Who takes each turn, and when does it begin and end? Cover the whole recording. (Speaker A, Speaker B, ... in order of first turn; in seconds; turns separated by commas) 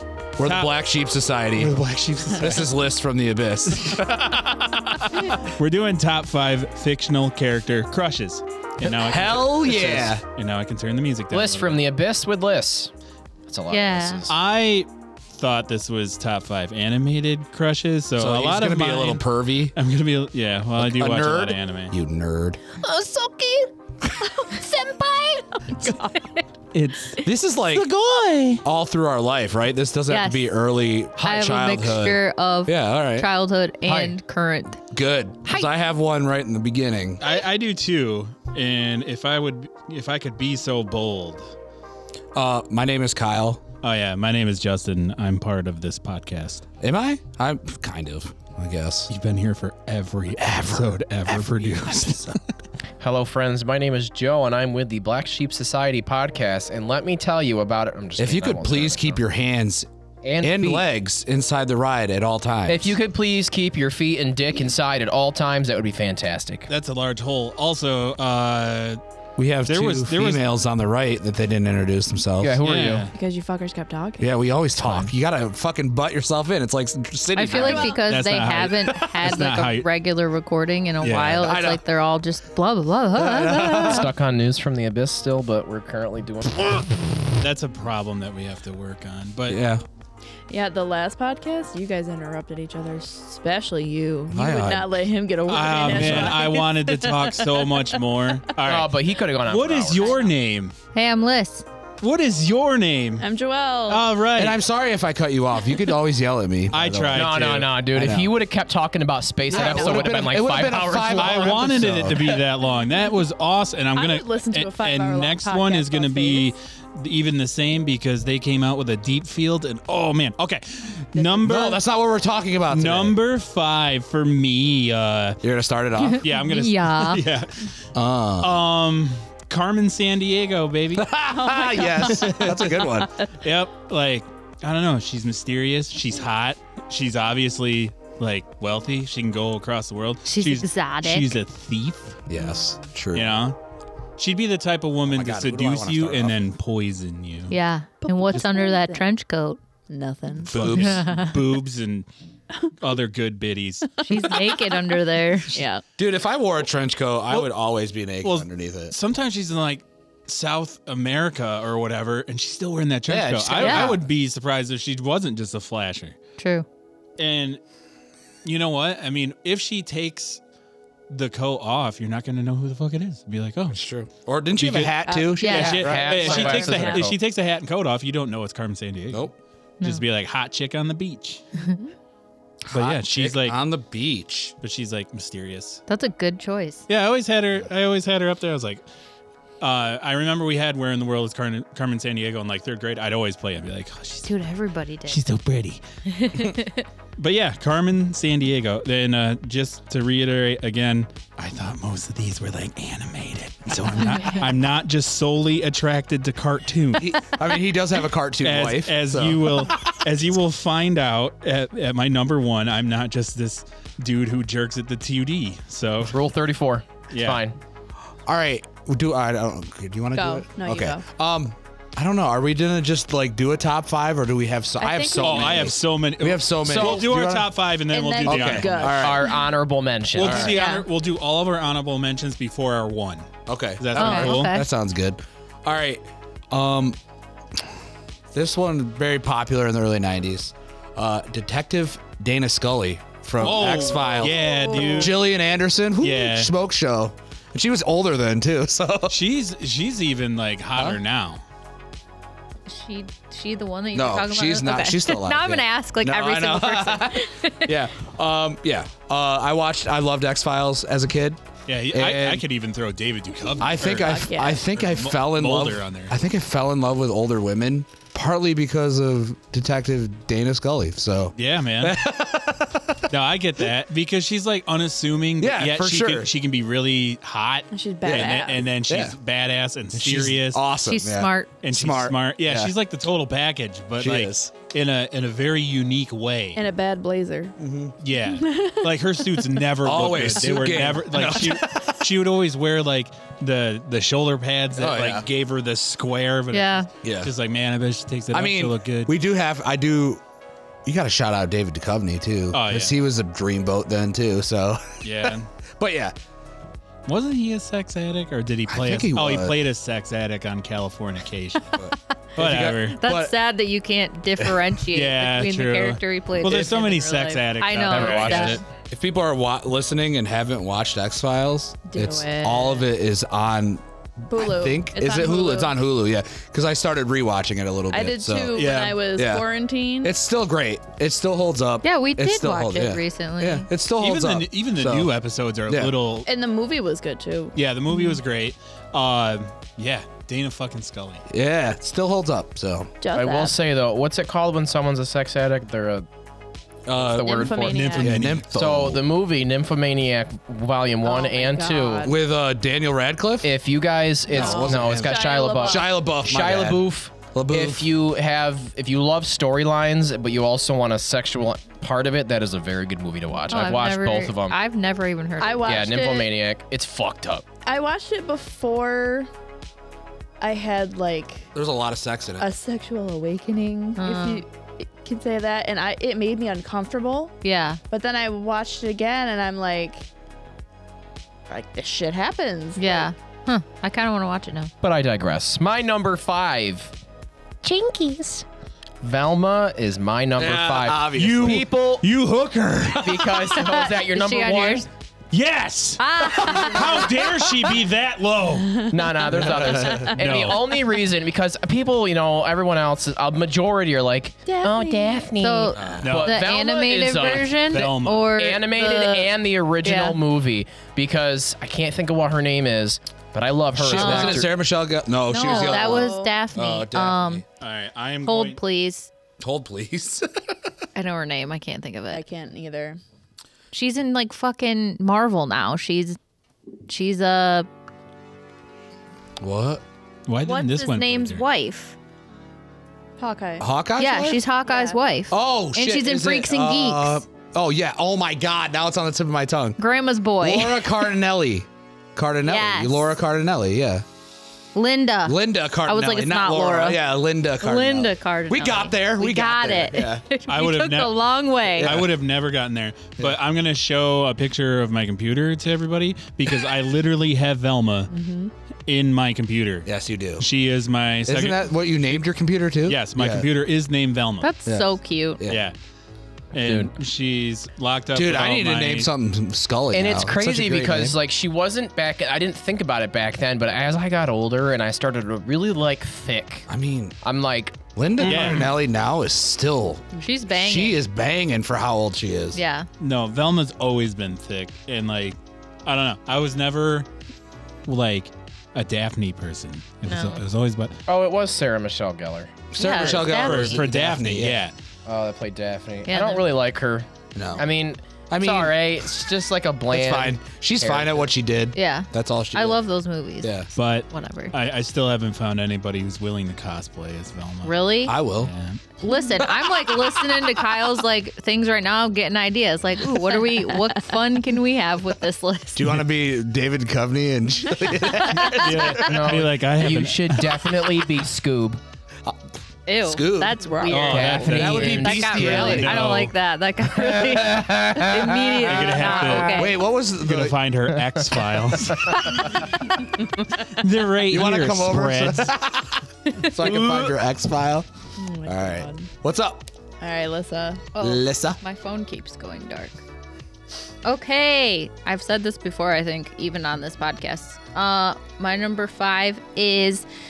Speaker A: 0.4-4.4, Speaker B: 0.4-0.7, Speaker B: 1.6-2.8, Speaker B: 3.7-11.8, Speaker A: 8.8-10.2, Speaker C: 11.3-12.9, Speaker C: 13.5-14.3, Speaker D: 13.7-14.3, Speaker B: 14.3-21.9, Speaker A: 18.2-19.8, Speaker A: 20.8-22.6, Speaker D: 22.8-23.7, Speaker D: 24.2-25.9, Speaker E: 25.7-26.4, Speaker B: 26.7-28.6, Speaker A: 27.2-27.9, Speaker A: 28.6-33.3, Speaker D: 30.1-30.4, Speaker D: 31.2-34.8, Speaker C: 33.9-34.1, Speaker A: 34.9-37.2, Speaker B: 37.2-41.5, Speaker A: 42.3-43.6, Speaker B: 43.8-46.6, Speaker A: 46.8-49.1, Speaker B: 49.1-52.5, Speaker A: 50.4-52.4, Speaker C: 53.0-59.2, Speaker A: 58.2-59.9, Speaker C: 60.2-60.9, Speaker A: 60.4-63.0, Speaker C: 62.7-66.7, Speaker B: 66.7-69.0, Speaker A: 69.4-72.6, Speaker B: 69.6-70.5, Speaker C: 72.4-73.1, Speaker B: 72.6-73.1, Speaker E: 73.1-74.3, Speaker A: 74.2-78.0, Speaker B: 74.8-75.1, Speaker D: 77.3-84.1, Speaker E: 77.5-77.9, Speaker B: 77.8-79.9, Speaker B: 81.0-81.5, Speaker A: 81.4-81.8, Speaker A: 83.2-84.1, Speaker C: 83.6-86.9, Speaker B: 87.4-89.6, Speaker A: 89.5-89.8, Speaker E: 90.5-97.9, Speaker A: 94.3-94.9, Speaker B: 95.5-100.8, Speaker A: 95.9-96.4, Speaker C: 98.6-100.1, Speaker E: 100.0-100.3, Speaker D: 100.9-101.7, Speaker B: 102.0-103.3, Speaker E: 103.2-104.1, Speaker B: 103.9-104.6, Speaker A: 104.4-108.3, Speaker B: 106.7-107.7, Speaker C: 107.1-111.8, Speaker A: 109.5-112.5, Speaker E: 109.5-110.2, Speaker B: 111.1-121.8, Speaker E: 114.0-116.5, Speaker A: 121.4-123.2, Speaker B: 122.7-125.4, Speaker A: 125.4-126.2, Speaker D: 126.0-127.2, Speaker B: 126.2-127.8, Speaker A: 127.9-128.6, Speaker B: 128.4-131.1, Speaker A: 131.0-133.1, Speaker E: 131.3-133.3, Speaker B: 132.0-142.2, Speaker D: 140.3-141.4, Speaker A: 142.3-143.3, Speaker B: 143.1-143.6, Speaker B: 144.2-147.6, Speaker A: 145.1-146.5, Speaker D: 147.5-149.6, Speaker E: 148.0-149.0, Speaker E: 149.9-150.7, Speaker A: 150.4-151.1, Speaker B: 150.5-152.1, Speaker D: 150.7-151.4, Speaker B: 152.8-154.2, Speaker E: 154.0-154.6, Speaker D: 154.1-155.5, Speaker E: 155.5-155.8, Speaker A: 156.0-158.9, Speaker B: 158.2-166.2, Speaker A: 163.1-164.0, Speaker D: 163.6-164.0, Speaker D: 166.4-166.7, Speaker B: 167.2-167.6, Speaker B: 168.4-170.4, Speaker B: 171.1-173.8, Speaker A: 173.7-176.2, Speaker B: 174.6-179.3, Speaker E: 175.1-177.1, Speaker D: 175.4-175.9, Speaker C: 175.5-177.2, Speaker B: 179.8-181.4, Speaker A: 182.7-184.6, Speaker B: 182.7-183.6, Speaker B: 184.6-185.8, Speaker D: 185.9-186.9, Speaker B: 186.9-188.8, Speaker B: 189.6-194.3, Speaker D: 194.3-195.2, Speaker B: 195.1-195.8, Speaker D: 196.1-196.9, Speaker B: 197.2-207.2, Speaker A: 207.0-210.1, Speaker B: 208.4-216.2, Speaker C: 216.1-217.6, Speaker B: 217.1-217.4, Speaker A: 218.3-227.5, Speaker E: 220.1-221.0, Speaker E: 224.8-225.7, Speaker B: 225.2-229.1, Speaker C: 226.6-227.1, Speaker E: 227.9-229.3, Speaker A: 228.2-229.3, Speaker C: 228.9-230.6, Speaker B: 230.1-234.5, Speaker A: 230.2-230.6, Speaker D: 230.5-230.8, Speaker A: 233.5-237.0, Speaker D: 233.9-234.7, Speaker A: 238.3-249.2, Speaker B: 243.4-245.2, Speaker E: 244.3-245.1, Speaker B: 246.0-246.5, Speaker B: 249.1-251.4, Speaker D: 252.7-257.8, Speaker A: 253.9-262.4, Speaker B: 261.7-266.2, Speaker A: 263.6-273.1, Speaker E: 264.0-264.6, Speaker B: 271.4-272.1, Speaker B: 273.1-280.6, Speaker A: 275.4-276.3, Speaker E: 277.7-278.6, Speaker A: 278.0-279.2, Speaker A: 279.9-282.7, Speaker D: 280.9-281.5, Speaker B: 281.6-286.6, Speaker A: 284.0-284.5, Speaker E: 286.6-287.6, Speaker A: 287.6-287.9, Speaker B: 288.0-299.1, Speaker E: 288.3-288.9, Speaker A: 289.8-292.1, Speaker A: 294.8-295.3, Speaker D: 296.5-296.9, Speaker A: 297.0-297.3, Speaker A: 298.3-300.2, Speaker A: 300.9-306.1, Speaker B: 302.5-303.0, Speaker B: 305.0-305.5, Speaker B: 307.1-311.8, Speaker A: 308.7-309.6, Speaker A: 311.7-313.4, Speaker B: 312.4-313.0, Speaker D: 313.0-318.6, Speaker B: 314.9-318.6, Speaker C: 317.8-318.6, Speaker A: 318.9-328.6, Speaker E: 321.9-322.9, Speaker E: 324.3-325.7, Speaker E: 327.9-330.1, Speaker B: 328.5-329.0, Speaker A: 329.1-329.4, Speaker A: 330.0-335.1, Speaker D: 331.8-333.7, Speaker B: 334.0-336.3, Speaker A: 335.7-335.9, Speaker E: 336.2-338.2, Speaker B: 337.6-341.3, Speaker A: 341.3-342.9, Speaker E: 343.0-343.6, Speaker C: 343.1-346.1, Speaker A: 346.9-349.1, Speaker C: 346.9-352.1, Speaker E: 347.2-348.2, Speaker B: 347.7-348.5, Speaker E: 351.0-352.2, Speaker A: 352.0-353.5, Speaker C: 353.4-364.6, Speaker A: 354.3-357.9, Speaker E: 354.3-356.0, Speaker D: 363.5-365.7, Speaker E: 365.4-366.3, Speaker C: 365.6-367.5, Speaker E: 367.6-369.3, Speaker E: 370.4-371.5, Speaker A: 371.5-372.5, Speaker E: 372.4-377.4, Speaker D: 374.0-374.4, Speaker D: 377.4-377.8, Speaker E: 377.9-380.1, Speaker E: 381.5-383.1, Speaker D: 382.8-384.7, Speaker C: 384.8-386.9, Speaker D: 387.6-388.4, Speaker C: 389.0-392.1, Speaker A: 390.4-391.7, Speaker B: 391.1-393.7, Speaker C: 393.0-394.9, Speaker D: 393.6-394.9, Speaker B: 395.3-400.7, Speaker D: 396.0-397.2, Speaker E: 396.2-396.6, Speaker C: 398.9-414.5, Speaker A: 399.3-400.1, Speaker E: 404.5-405.3, Speaker D: 405.4-410.2, Speaker A: 405.7-406.2, Speaker B: 406.0-406.4, Speaker B: 407.6-408.3, Speaker A: 413.8-417.4, Speaker D: 413.8-414.4, Speaker D: 415.3-417.4, Speaker E: 415.4-416.3, Speaker B: 417.6-418.6, Speaker D: 418.2-419.1, Speaker A: 419.4-420.7, Speaker D: 420.9-422.2, Speaker E: 422.1-423.0, Speaker D: 423.7-426.2, Speaker D: 426.9-427.7, Speaker A: 429.4-429.8, Speaker B: 430.3-431.4, Speaker D: 430.4-432.0, Speaker E: 433.2-433.7, Speaker A: 433.6-434.4, Speaker D: 434.0-437.2, Speaker E: 434.7-435.0, Speaker A: 435.3-439.8, Speaker D: 439.8-440.9, Speaker A: 440.4-444.1, Speaker D: 442.4-443.0, Speaker D: 444.8-447.0, Speaker A: 445.3-450.2, Speaker D: 447.6-452.0, Speaker B: 450.5-451.2, Speaker A: 451.8-452.1, Speaker B: 451.8-458.1, Speaker E: 458.1-458.5, Speaker B: 458.9-462.3, Speaker A: 459.9-460.5, Speaker A: 461.3-463.5, Speaker B: 462.9-464.5, Speaker D: 464.4-465.5, Speaker B: 465.5-465.8, Speaker B: 466.5-469.1, Speaker C: 466.6-466.9, Speaker A: 468.1-471.2, Speaker C: 469.9-476.7, Speaker A: 476.7-477.2, Speaker C: 477.2-477.8, Speaker A: 477.9-482.6, Speaker B: 478.2-478.7, Speaker D: 480.1-481.0, Speaker D: 482.5-482.9, Speaker B: 483.0-487.1, Speaker B: 487.9-491.0, Speaker D: 490.1-490.4, Speaker C: 491.1-493.2, Speaker A: 492.7-494.6, Speaker D: 492.8-493.8, Speaker B: 493.1-494.8, Speaker C: 495.1-501.3, Speaker D: 496.1-496.4, Speaker A: 497.4-497.7, Speaker A: 498.3-499.3, Speaker A: 499.9-502.8, Speaker D: 501.8-504.5, Speaker A: 503.4-503.7, Speaker B: 503.8-507.8, Speaker D: 507.6-508.1, Speaker A: 508.1-508.5, Speaker B: 508.4-508.8, Speaker D: 509.0-516.0, Speaker A: 515.8-519.4, Speaker C: 518.5-521.8, Speaker B: 518.5-520.8, Speaker D: 522.9-529.8, Speaker A: 523.0-523.7, Speaker E: 523.4-524.6, Speaker C: 523.8-526.0, Speaker B: 523.9-526.4, Speaker A: 524.7-526.1, Speaker A: 527.0-530.6, Speaker B: 528.6-533.0, Speaker B: 533.6-535.6, Speaker A: 534.3-537.9, Speaker E: 538.2-539.1, Speaker A: 538.4-539.7, Speaker E: 540.0-540.9, Speaker D: 541.0-543.0, Speaker A: 541.0-541.6, Speaker D: 544.0-550.0